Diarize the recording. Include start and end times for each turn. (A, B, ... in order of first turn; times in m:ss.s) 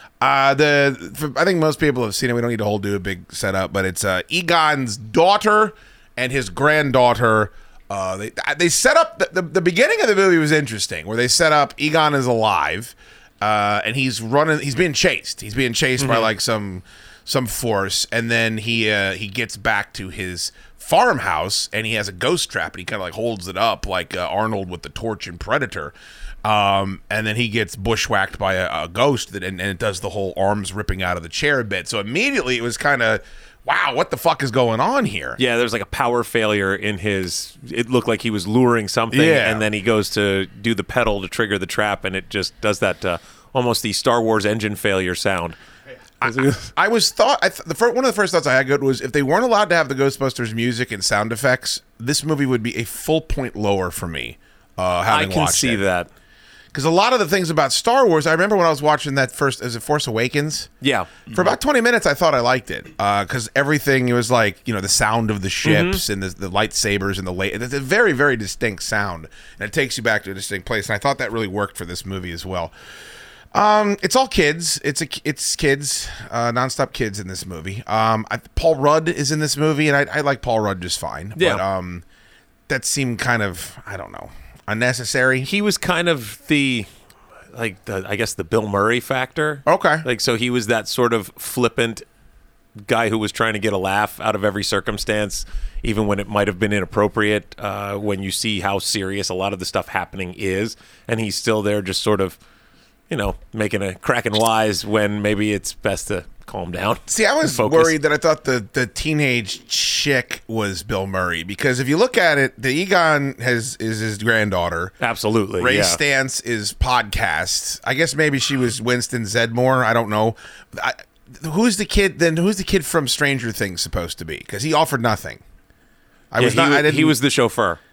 0:00.2-0:35.4 A
0:16.0-0:16.3 B
0:35.4-0:45.6 B
0:39.1-0:39.7 A
0:46.2-0:55.8 A
0:46.2-0:46.7 B
0:55.1-0:56.1 B
0:56.7-1:00.7 A
1:00.8-1:01.2 B
1:01.3-1:12.7 A
1:05.6-1:06.0 B
1:13.5-1:22.0 A
1:21.4-1:21.6 B
1:22.7-1:25.5 A
1:25.4-1:26.9 B
1:27.5-1:32.0 B
1:29.7-1:30.1 A
1:32.8-1:42.4 B
1:43.1-1:48.0 B
1:47.1-1:55.0 A
1:55.0-1:56.0 B
1:55.6-2:05.4 A
2:06.3-2:07.2 A
2:06.4-2:07.8 B